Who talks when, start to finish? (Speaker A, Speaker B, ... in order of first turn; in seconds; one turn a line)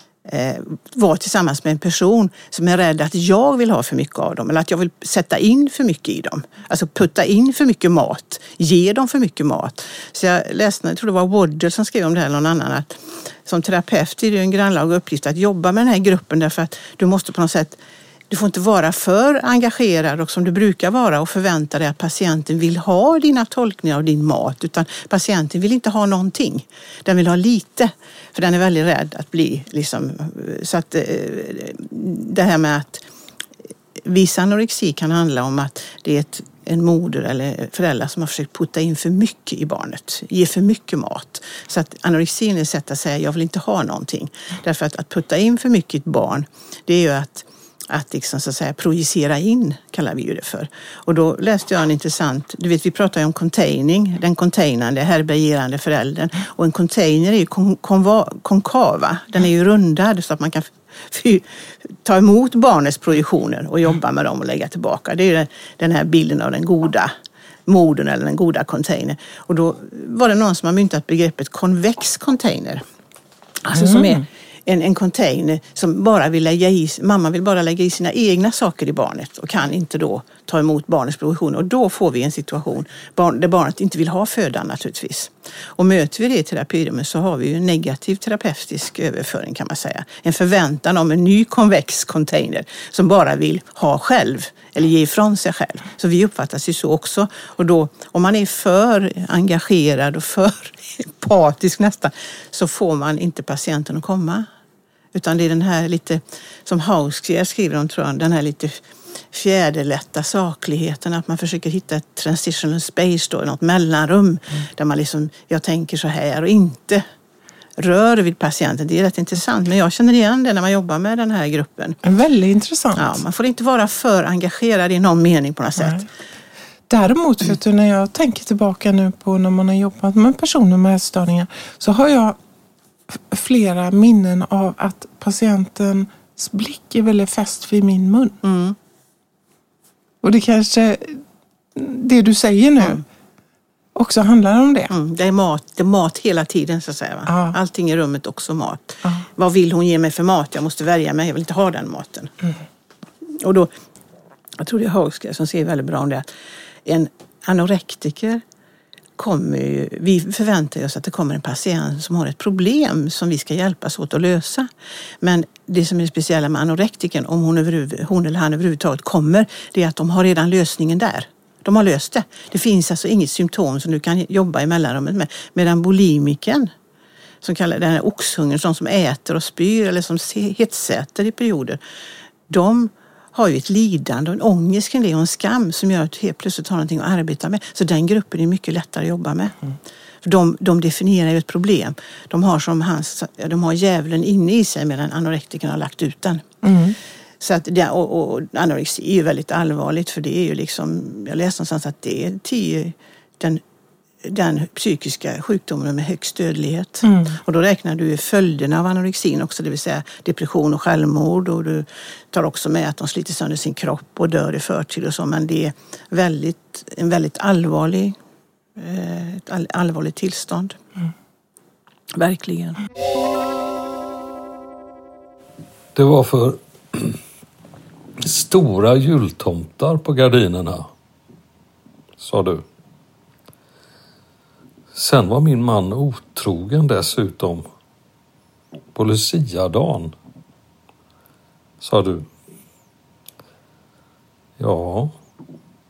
Speaker A: 0.2-33.1
Speaker A: 34.0-67.1
Speaker A: 67.7-72.8
Speaker A: 73.6-104.5
Speaker B: 73.7-74.2
Speaker A: 105.1-117.0
Speaker A: 117.8-122.0
Speaker B: 122.0-123.2
Speaker A: 123.0-126.0
Speaker B: 126.9-132.4
Speaker B: 133.1-138.4
Speaker A: 138.4-138.8
Speaker B: 140.2-141.2
Speaker B: 141.7-143.0
Speaker B: 143.9-144.9
Speaker A: 144.9-152.3
Speaker B: 147.3-147.6
Speaker A: 153.3-153.7
Speaker A: 154.6-156.2
Speaker A: 156.8-158.4
Speaker A: 159.2-164.7
Speaker A: 165.2-176.7
Speaker A: 177.4-181.8
Speaker A: 182.5-189.6
Speaker A: 190.2-196.4
Speaker B: 196.6-197.0
Speaker A: 197.4-203.6
Speaker A: 204.2-218.2
Speaker B: 207.0-207.4
Speaker A: 218.8-220.8
Speaker A: 222.1-222.8
Speaker C: 225.9-227.2
Speaker C: 228.2-230.9
Speaker C: 232.2-232.6
Speaker C: 234.9-237.6
Speaker C: 238.9-240.1
Speaker C: 241.8-242.3
Speaker C: 244.6-245.2